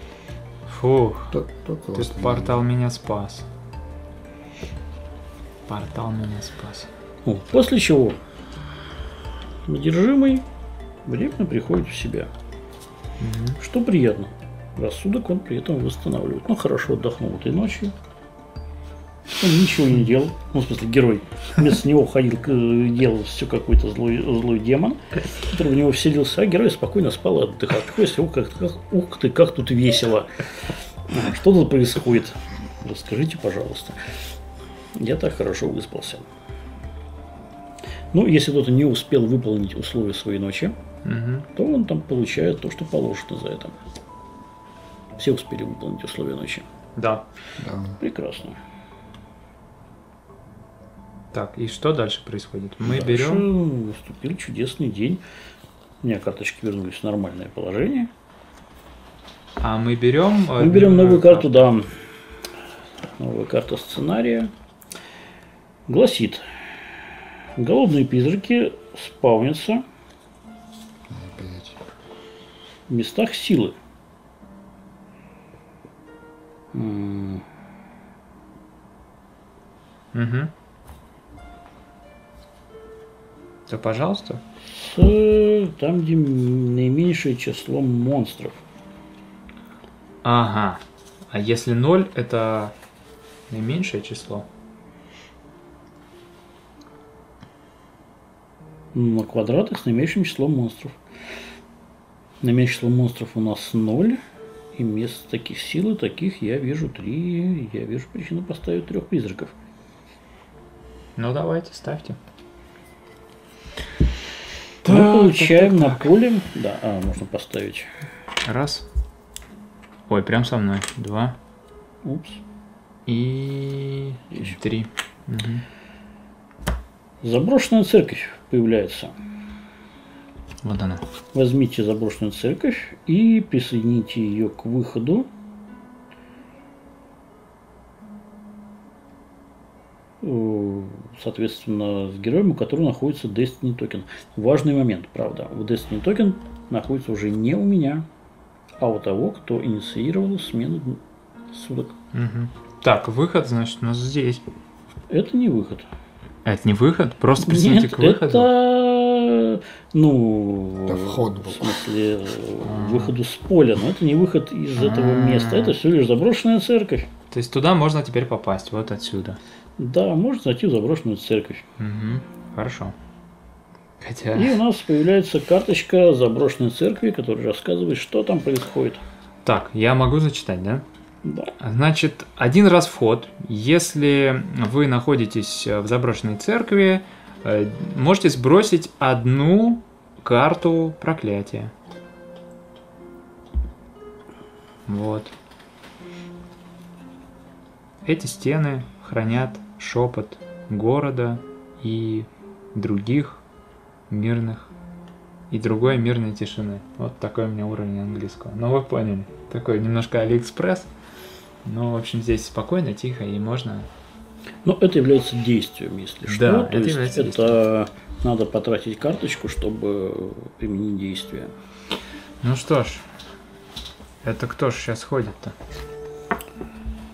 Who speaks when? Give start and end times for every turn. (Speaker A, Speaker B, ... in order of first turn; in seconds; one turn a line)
Speaker A: 0.7-1.4
Speaker B: 1.3-2.6
Speaker A: 1.9-3.5
Speaker A: 5.7-6.9
Speaker C: 7.2-8.2
Speaker C: 9.7-10.4
Speaker C: 11.1-12.3
Speaker A: 13.2-13.6
Speaker C: 13.6-17.9
Speaker C: 19.3-34.2
Speaker C: 35.0-36.3
Speaker C: 38.1-40.7
Speaker A: 41.0-41.5
Speaker C: 41.5-43.8
Speaker C: 45.2-46.7
Speaker A: 47.0-47.2
Speaker B: 47.6-48.0
Speaker C: 48.0-48.6
Speaker A: 51.3-53.5
Speaker C: 52.8-55.2
Speaker C: 56.0-58.1
Speaker A: 59.6-61.7
Speaker C: 60.6-62.0
Speaker C: 63.1-64.5
Speaker C: 65.9-66.5
Speaker C: 67.6-69.8
Speaker B: 71.1-71.8
Speaker C: 72.9-73.8
Speaker C: 76.7-77.5
Speaker A: 80.1-80.5
Speaker A: 83.7-84.4
Speaker C: 84.8-88.6
Speaker A: 90.2-92.7
Speaker A: 93.5-94.5
Speaker C: 98.9-101.0
Speaker C: 102.4-104.2
Speaker C: 104.7-109.5
Speaker A: 111.2-112.2
Speaker A: 114.8-116.1
Speaker C: 114.8-117.9
Speaker A: 118.5-118.9
Speaker A: 120.1-121.4
Speaker C: 122.0-122.4
Speaker A: 123.1-125.6
Speaker C: 124.3-124.6
Speaker C: 127.2-129.1
Speaker A: 130.6-131.1
Speaker C: 131.3-135.3
Speaker C: 140.2-148.1
Speaker C: 148.8-151.9
Speaker A: 152.1-154.4
Speaker C: 155.1-155.9
Speaker A: 156.4-158.5
Speaker C: 157.4-167.1
Speaker B: 160.9-161.8
Speaker A: 162.7-163.2
Speaker A: 164.8-165.8
Speaker A: 167.3-169.4
Speaker C: 169.8-171.7
Speaker A: 171.8-172.9
Speaker A: 174.0-174.6
Speaker C: 174.3-179.0
Speaker A: 179.4-180.8
Speaker C: 181.2-181.5
Speaker A: 181.6-191.7
Speaker A: 194.9-195.3
Speaker A: 198.0-203.4
Speaker A: 204.1-204.7
Speaker A: 205.5-210.9
Speaker A: 211.7-213.9
Speaker C: 214.6-221.5
Speaker A: 216.3-217.6
Speaker A: 222.4-223.1
Speaker A: 224.2-225.6